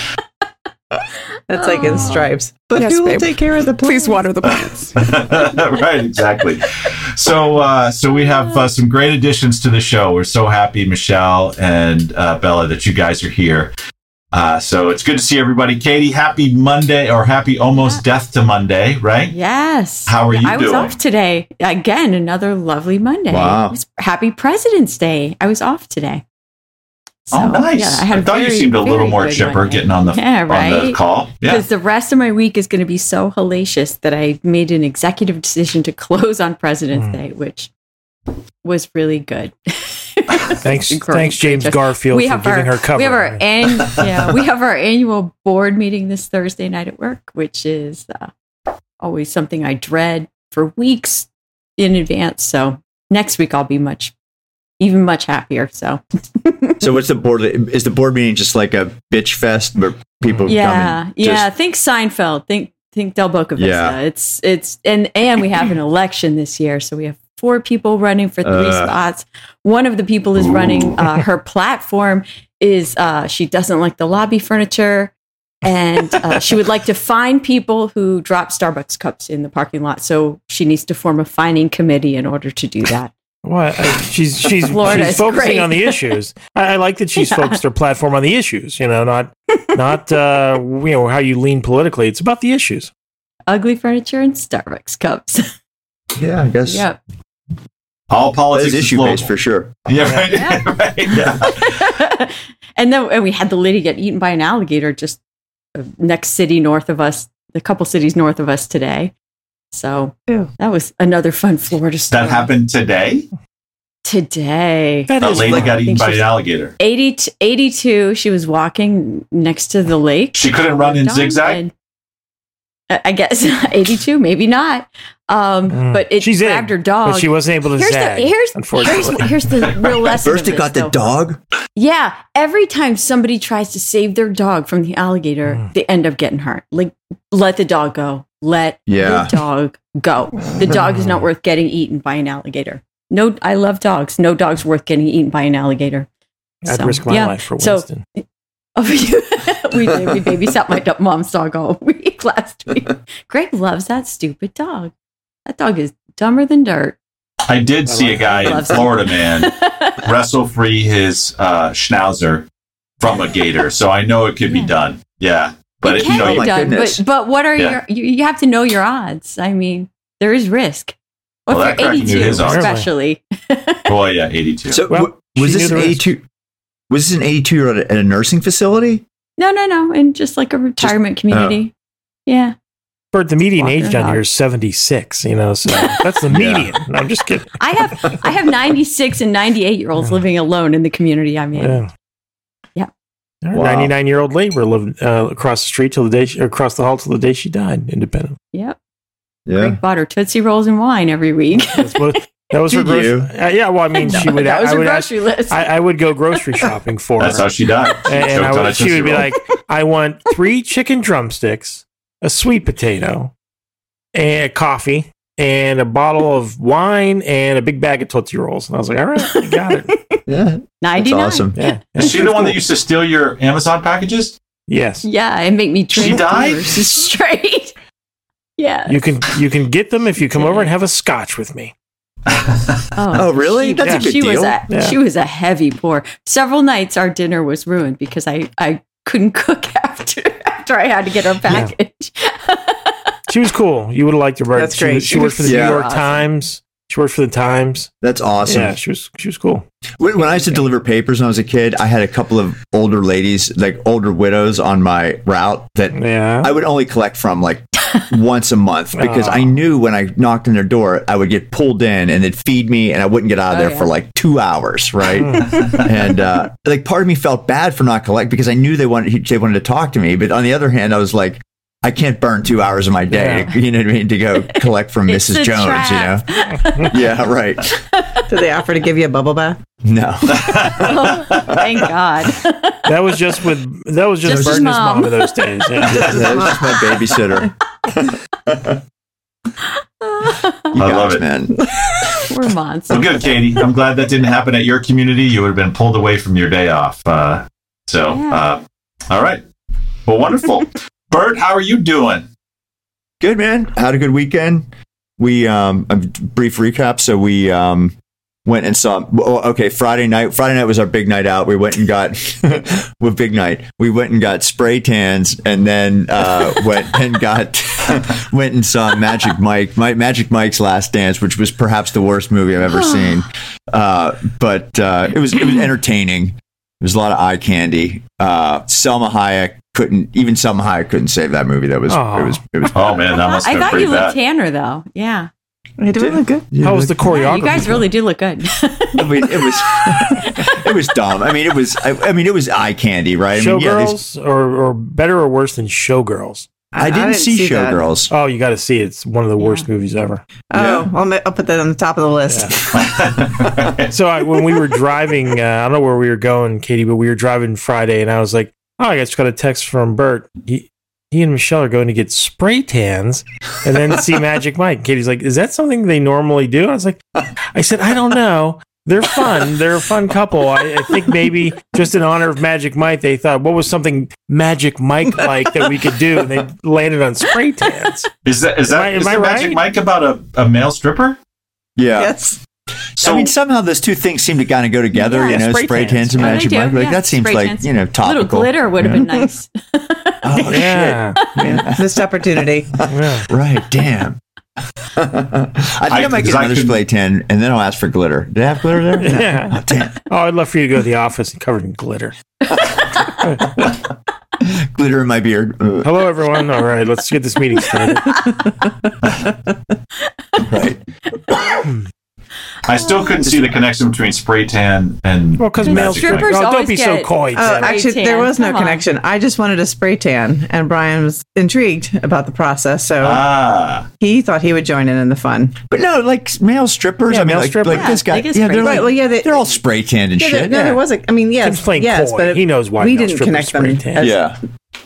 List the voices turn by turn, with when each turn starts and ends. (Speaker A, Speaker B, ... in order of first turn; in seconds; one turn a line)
Speaker A: 1.5-4.2
Speaker B: 1.6-2.3
Speaker C: 2.8-5.0
Speaker D: 5.0-13.7
Speaker D: 14.3-19.4
Speaker B: 17.8-18.0
Speaker B: 19.3-26.2
Speaker D: 20.1-21.0
Speaker E: 23.3-23.8
Speaker B: 27.3-37.7
Speaker D: 27.3-31.6
Speaker B: 38.6-48.3
Speaker F: 40.6-43.4
Speaker B: 49.0-54.1
Speaker B: 54.8-56.8
Speaker E: 56.8-61.5
Speaker B: 60.5-75.1
Speaker E: 63.6-64.0
Speaker E: 68.4-68.9
Speaker D: 70.4-71.0
Speaker B: 75.6-83.1
Speaker F: 83.5-92.9
Speaker B: 84.6-86.1
Speaker B: 87.2-87.6
Speaker B: 93.5-95.5
Speaker E: 96.2-96.8
Speaker B: 96.7-97.0
Speaker D: 98.1-99.3
Speaker E: 98.5-99.7
Speaker D: 99.9-101.8
Speaker B: 100.3-100.7
Speaker B: 101.4-105.2
Speaker B: 105.8-109.1
Speaker B: 109.7-112.5
Speaker D: 112.1-113.3
Speaker B: 114.0-121.7
Speaker F: 115.1-115.8
Speaker D: 115.2-116.8
Speaker D: 120.3-121.6
Speaker B: 122.9-130.9
Speaker F: 125.7-129.3
Speaker E: 130.2-131.4
Speaker B: 131.8-146.1
Speaker E: 138.9-139.3
Speaker F: 140.7-141.2
Speaker F: 146.6-148.0
Speaker B: 146.7-147.9
Speaker B: 148.8-154.9
Speaker B: 155.5-157.0
Speaker D: 157.5-159.5
Speaker F: 157.9-158.7
Speaker B: 158.2-160.1
Speaker D: 160.0-162.5
Speaker D: 163.0-166.7
Speaker B: 164.5-164.7
Speaker B: 165.8-170.9
Speaker E: 166.0-167.0
Speaker B: 171.5-173.9
Speaker D: 171.5-172.7
Speaker F: 172.4-172.9
Speaker D: 173.9-174.8
Speaker E: 174.7-176.2
Speaker F: 174.9-176.0
Speaker E: 176.9-179.0
Speaker B: 179.4-181.7
Speaker E: 180.8-181.6
Speaker B: 182.3-182.6
Speaker F: 183.1-187.6
Speaker B: 183.6-184.2
Speaker B: 185.7-186.2
Speaker E: 186.3-186.7
Speaker B: 187.6-191.8
Speaker F: 191.6-191.9
Speaker F: 193.4-198.4
Speaker E: 193.5-193.9
Speaker E: 199.5-199.8
Speaker B: 199.5-202.2
Speaker F: 201.7-207.5
Speaker E: 202.7-203.3
Speaker B: 204.0-205.7
Speaker D: 207.2-209.3
Speaker F: 208.1-213.3
Speaker F: 214.2-219.9
Speaker B: 219.3-220.2
Speaker E: 220.3-221.6
Speaker B: 220.8-222.1
Speaker F: 221.6-222.6
Speaker D: 222.0-224.4
Speaker F: 224.7-225.1
Speaker B: 225.0-227.7
Speaker D: 225.9-227.0
Speaker B: 228.6-229.0
Speaker F: 228.9-231.7
Speaker B: 230.4-230.7
Speaker D: 232.3-232.6
Speaker B: 233.0-243.1
Speaker E: 233.1-234.6
Speaker F: 234.7-235.0
Speaker F: 241.5-241.7
Speaker F: 243.3-247.9
Speaker A: 244.5-245.4
Speaker B: 245.1-246.3
Speaker E: 245.4-245.8
Speaker E: 248.0-248.8
Speaker F: 248.5-249.7
Speaker E: 250.0-276.2
Speaker F: 255.9-256.5
Speaker F: 259.0-259.6
Speaker B: 263.5-263.9
Speaker F: 265.2-265.5
Speaker F: 273.1-273.5
Speaker B: 275.1-277.2
Speaker E: 276.9-277.8
Speaker B: 277.9-278.3
Speaker A: 278.3-279.6
Speaker E: 279.8-281.4
Speaker D: 280.4-281.4
Speaker B: 280.8-283.4
Speaker F: 282.9-286.3
Speaker B: 284.2-285.4
Speaker E: 284.3-284.7
Speaker E: 285.9-288.7
Speaker B: 290.0-290.8
Speaker E: 290.7-291.6
Speaker D: 290.8-291.2
Speaker B: 292.3-293.1
Speaker D: 292.9-299.4
Speaker B: 298.1-298.4
Speaker D: 300.1-302.3
Speaker E: 303.2-333.0
Speaker B: 322.8-323.1
Speaker F: 331.9-332.4
Speaker D: 332.7-334.2
Speaker B: 333.3-335.3
Speaker A: 335.8-336.5
Speaker E: 336.0-337.0
Speaker F: 336.6-337.9
Speaker B: 337.0-340.6
Speaker E: 338.9-344.0
Speaker F: 343.4-346.5
Speaker A: 346.7-347.8
Speaker E: 346.8-348.1
Speaker F: 348.1-350.2
Speaker B: 349.4-349.7
Speaker A: 350.5-352.7
Speaker E: 350.5-350.9
Speaker F: 352.3-352.5
Speaker D: 352.7-353.9
Speaker F: 353.9-367.0
Speaker F: 367.6-378.1
Speaker D: 378.2-381.2
Speaker F: 378.7-379.6
Speaker E: 381.8-382.1
Speaker A: 381.9-382.4
Speaker D: 383.0-383.3
Speaker E: 383.0-389.0
Speaker F: 384.9-386.4
Speaker B: 386.2-390.6
Speaker E: 390.2-392.0
Speaker F: 390.5-391.2
Speaker B: 391.2-391.5
Speaker A: 391.4-392.8
Speaker F: 392.9-393.3
Speaker E: 393.2-394.2
Speaker E: 394.9-399.9
Speaker D: 395.9-396.8
Speaker F: 399.0-402.1
Speaker E: 404.4-405.9
Speaker F: 405.8-408.3
Speaker E: 410.4-410.8
Speaker D: 412.6-416.3
Speaker B: 412.9-413.2
Speaker E: 413.2-413.6
Speaker F: 415.4-417.7
Speaker B: 415.6-418.8
Speaker A: 417.3-423.2
Speaker D: 423.0-423.9
Speaker A: 424.0-425.6
Speaker E: 425.7-430.8
Speaker F: 427.1-428.0
Speaker B: 427.7-428.9
Speaker A: 428.6-429.5
Speaker A: 430.2-434.3
Speaker F: 431.4-434.1
Speaker E: 434.0-434.4